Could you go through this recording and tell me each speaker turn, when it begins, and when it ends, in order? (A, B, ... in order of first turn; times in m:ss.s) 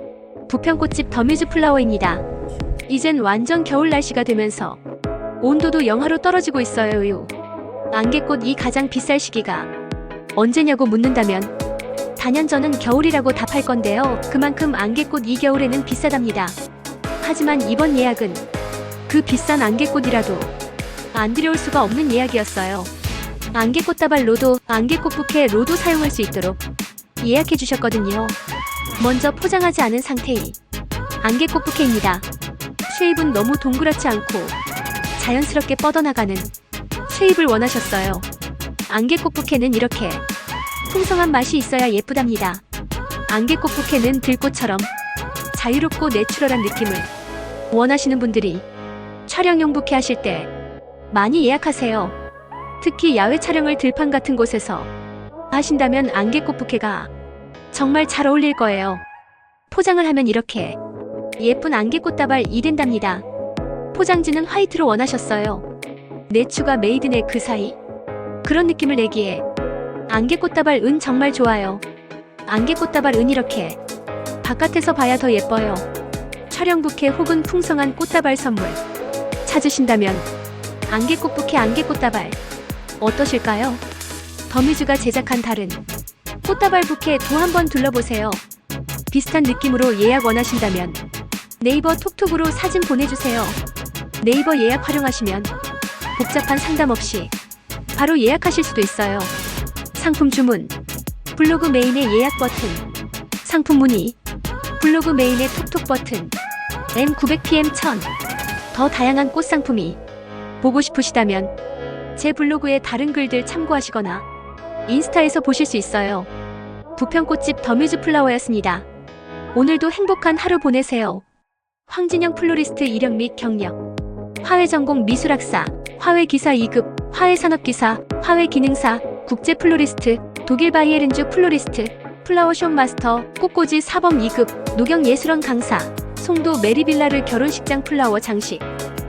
0:00.5-0:02.2 A
0:02.9-0:04.8 A
0:05.4-0:07.3 A
0:07.9-0:09.7 A
0:10.4-0:11.5 A
0:12.2-0:16.6 A
0:17.2-0:18.4 A
0:19.1-0:20.5 A
0:21.1-0:22.9 A
0:23.5-0:26.6 A
0:27.2-0:28.4 A
0:29.0-0:30.6 A
0:31.2-0:32.3 A
0:32.9-0:34.6 A
0:35.2-0:36.5 A
0:37.1-0:38.3 A
0:38.9-0:40.2 A
0:40.9-0:42.6 A
0:43.3-0:44.9 A
0:45.5-0:47.1 A
0:47.7-0:48.6 A
0:49.3-0:50.5 A
0:51.1-0:52.2 A
0:52.8-0:54.9 A
0:55.5-0:57.1 A
0:57.7-0:59.0 A
0:59.7-1:00.8 A
1:01.4-1:03.2 A
1:03.9-1:05.7 A
1:06.3-1:07.8 A
1:08.4-1:09.4 A
1:10.1-1:11.8 A
1:12.5-1:13.8 A
1:14.4-1:15.9 A
1:16.5-1:18.8 A
1:19.4-1:20.3 A
1:20.9-1:22.4 A
1:23.0-1:23.8 A
1:24.5-1:25.8 A
1:26.4-1:28.4 A
1:29.1-1:31.0 A
1:31.6-1:33.6 A
1:34.2-1:35.5 A
1:36.2-1:37.3 A
1:37.9-1:39.3 A
1:40.0-1:40.7 A
1:41.4-1:42.8 A
1:43.4-1:44.2 A
1:44.8-1:46.4 A
1:46.9-1:48.1 A
1:48.7-1:50.0 A
1:50.6-1:51.5 A
1:52.2-1:54.2 A
1:54.9-1:56.3 A
1:57.0-1:58.9 A
1:59.5-2:01.2 A
2:01.9-2:03.8 A
2:04.4-2:18.6 A